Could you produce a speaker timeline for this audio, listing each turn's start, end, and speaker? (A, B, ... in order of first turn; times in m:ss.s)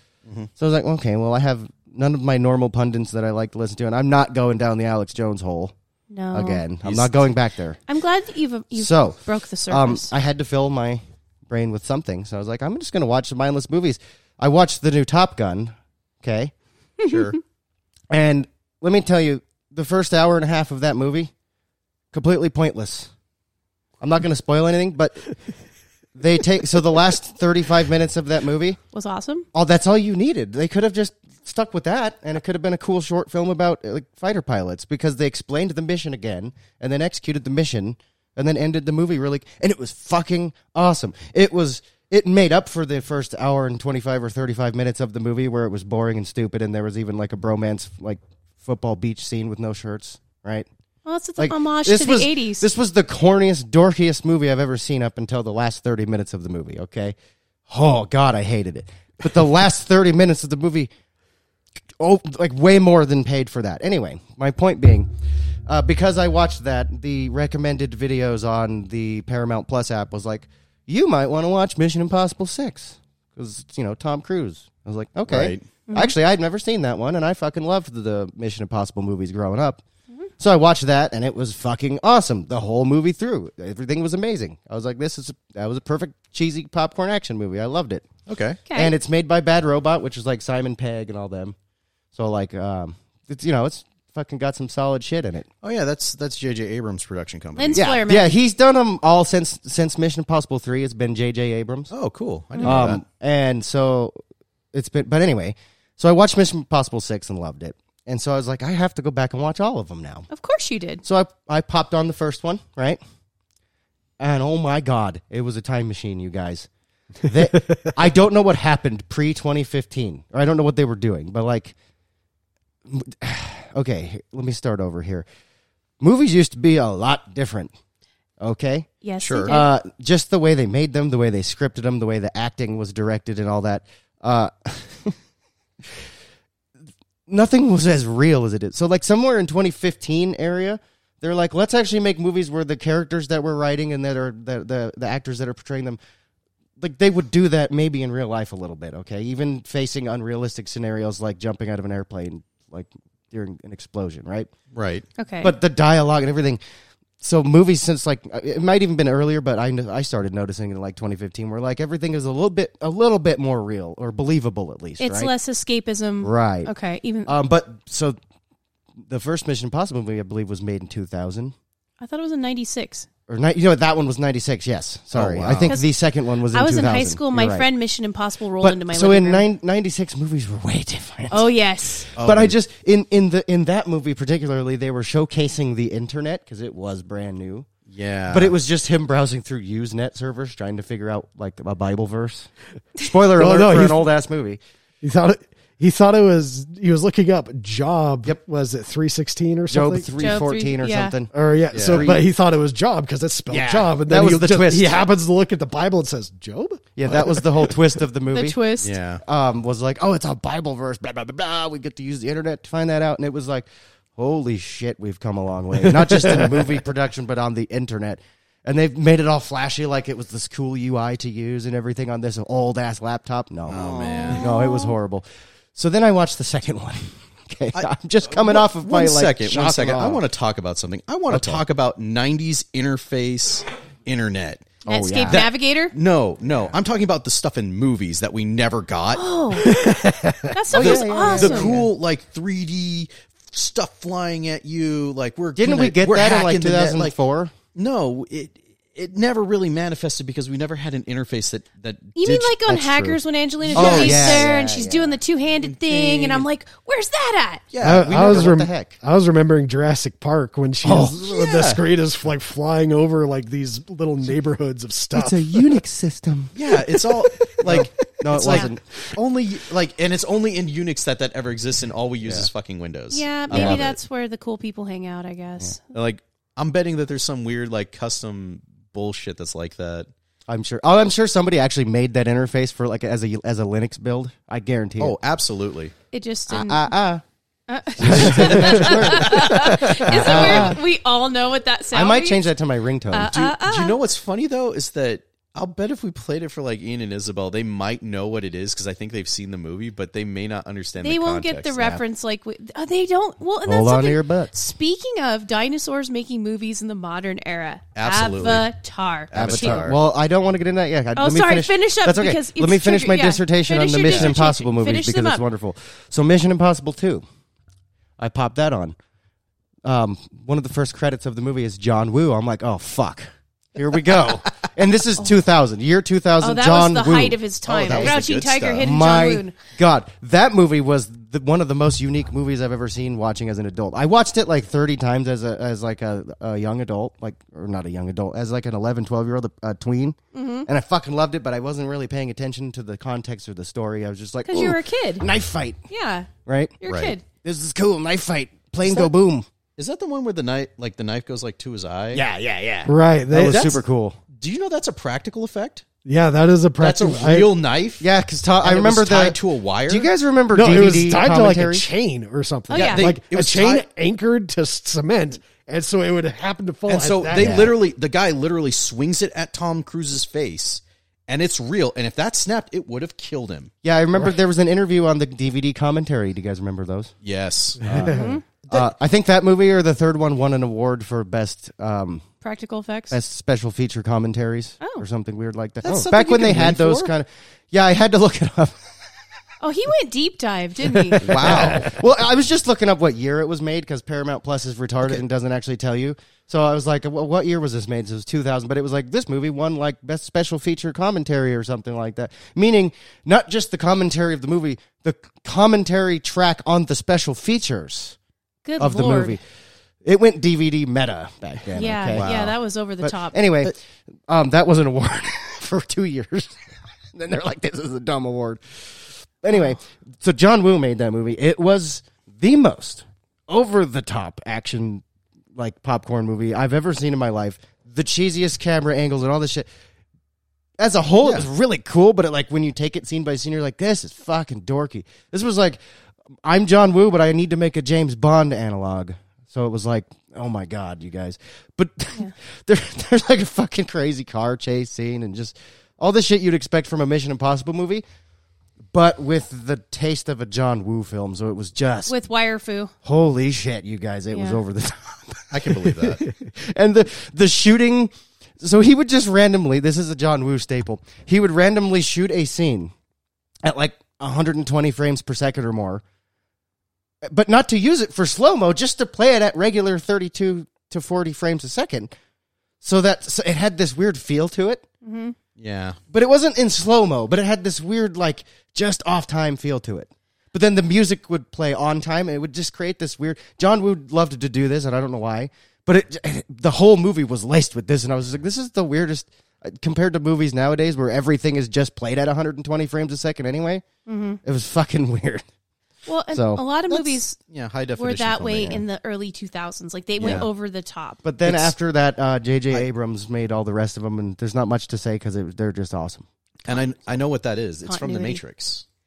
0:00.6-0:05.7 A
0:06.1-0:06.6 B
0:06.3-0:07.8 A
0:06.8-0:07.3 C
0:07.9-0:10.1 B
0:08.7-0:16.5 A
0:17.0-0:17.4 C
0:18.1-0:21.3 A
0:22.1-0:23.1 A
0:24.0-0:25.2 A
0:26.2-0:28.8 A
0:28.9-0:29.4 B
0:29.5-0:50.7 A
0:51.0-0:52.7 B
0:51.4-0:57.1 A
0:57.7-1:00.9 A
1:02.0-1:05.1 A
1:05.7-1:19.8 A
1:15.3-1:15.6 C
1:15.9-1:16.1 B
1:20.4-1:28.1 A
1:28.3-1:28.6 C
1:28.6-1:28.9 B
1:28.7-1:31.5 A
1:32.1-1:35.5 A
1:35.6-1:37.9 C
1:37.6-1:38.4 B
1:37.7-1:41.9 A
1:41.9-1:43.0 C
1:42.6-1:44.2 A
1:44.7-1:50.3 A
1:50.3-1:51.0 B
1:51.0-1:53.0 A
1:54.2-1:56.7 A
1:57.2-2:01.7 A
2:02.8-2:05.2 A
2:06.0-2:07.7 A
2:08.4-2:08.9 A
2:09.0-2:09.7 B
2:09.2-2:09.5 C
2:09.4-2:15.2 A
2:17.3-2:26.0 A
2:26.8-2:34.5 A
2:34.7-2:35.0 C
2:35.2-2:35.5 B
2:35.4-2:36.6 A
2:37.2-2:45.3 A
2:45.0-2:47.3 B
2:46.2-2:46.7 A
2:47.2-2:48.2 A
2:49.0-2:51.5 A
2:52.0-2:53.1 B
2:53.3-2:57.7 A
2:55.1-2:55.8 C
2:56.5-2:59.4 B
2:58.6-3:01.5 A
3:01.3-3:02.1 B
3:02.1-3:07.7 A
3:02.2-3:02.5 C
3:07.9-3:08.5 C
3:08.3-3:14.6 A
3:13.4-3:14.1 D
3:15.0-3:20.1 D
3:19.7-3:22.3 A
3:20.2-3:21.2 B
3:21.3-3:27.8 D
3:21.7-3:22.1 C
3:23.5-3:25.0 A
3:27.0-3:28.6 A
3:28.3-3:28.9 B
3:28.8-3:29.2 C
3:29.2-3:50.2 A
3:43.7-3:44.5 C
3:43.8-3:44.9 B
3:47.7-3:54.7 C
3:51.3-3:51.6 A
3:54.8-3:55.4 A
3:54.8-3:55.9 B
3:55.3-3:59.2 C
3:59.1-3:59.7 B
3:59.6-4:00.5 D
4:00.5-4:01.7 B
4:00.7-4:01.9 A
4:00.7-4:07.1 C
4:05.6-4:07.5 A
4:07.7-4:12.7 C
4:12.2-4:17.6 B
4:12.7-4:13.2 A
4:13.6-4:14.4 C
4:13.7-4:15.2 A
4:15.6-4:16.4 C
4:17.7-4:18.5 C
4:17.8-4:19.0 A
4:17.8-4:25.8 D
4:20.8-4:21.3 A
4:21.2-4:21.8 C
4:25.1-4:26.5 A
4:26.5-4:34.0 C
4:26.7-4:27.8 D
4:27.6-4:28.8 A
4:28.4-4:28.7 B
4:33.1-4:35.8 B
4:33.5-4:33.9 A
4:35.9-4:40.1 C
4:40.5-4:45.2 A
4:45.0-4:45.9 C
4:46.1-4:46.9 B
4:46.5-4:47.2 A
4:47.7-4:52.5 B
4:48.0-4:50.8 A
4:48.0-4:50.8 C
4:51.9-4:53.4 A
4:53.1-4:54.0 B
4:53.3-5:01.9 C
5:01.0-5:09.9 B
5:03.6-5:04.5 A
5:08.0-5:08.7 C
5:09.3-5:10.0 C
5:09.3-5:17.2 A
5:11.2-5:15.4 B
5:14.0-5:14.3 C
5:18.2-5:19.0 A
5:19.8-5:28.2 A
5:26.4-5:29.6 B
5:27.7-5:28.9 C
5:28.8-5:45.8 A
5:40.3-5:40.7 B
5:44.4-5:45.2 B
5:45.9-5:46.3 B
5:46.4-5:46.8 A
5:46.8-5:47.2 B
5:46.8-5:47.1 C
5:47.4-5:49.4 A
5:49.8-5:52.2 C
5:52.1-5:54.2 A
5:52.8-5:53.8 D
5:54.4-5:55.8 C
5:56.0-5:57.5 D
5:56.8-5:58.0 C
5:58.0-6:01.9 A
5:58.6-6:00.1 C
6:00.5-6:07.7 D
6:02.7-6:03.1 B
6:02.7-6:03.8 C
6:06.9-6:13.7 C
6:07.3-6:07.7 A
6:13.8-6:17.1 A
6:17.2-6:17.9 C
6:17.8-6:18.4 D
6:17.8-6:22.2 A
6:18.1-6:18.4 B
6:22.4-6:23.2 B
6:23.1-6:28.9 A
6:25.8-6:27.1 C
6:29.6-6:31.4 B
6:31.2-6:48.2 A
6:31.2-6:31.9 C
6:48.6-6:49.4 B
6:48.8-6:49.4 A
6:50.0-6:52.3 A
6:51.7-6:53.4 B
6:52.1-6:52.5 C
6:53.0-6:53.8 A
6:54.3-6:56.6 A
6:57.1-7:05.0 A
7:05.5-7:09.7 A
7:10.8-7:15.8 A
7:11.2-7:11.5 C
7:16.4-7:28.0 A
7:28.9-7:32.1 A
7:32.1-7:32.9 B
7:33.0-7:42.9 A
7:34.3-7:34.6 B
7:35.5-7:36.3 C
7:43.6-7:46.0 A
7:47.2-7:52.1 A
7:52.8-7:54.8 A
7:55.0-7:55.4 B
7:55.6-7:56.0 C
7:56.1-8:13.8 A
8:14.0-8:14.4 B
8:14.4-8:15.4 A
8:16.0-8:17.4 B
8:16.3-8:17.2 A
8:17.5-8:18.8 C
8:18.0-8:21.2 B
8:20.2-8:20.5 C
8:20.2-8:20.5 A
8:21.2-8:26.2 A
8:21.4-8:21.8 C
8:26.6-8:28.8 C
8:26.7-8:26.9 B
8:27.8-8:28.4 B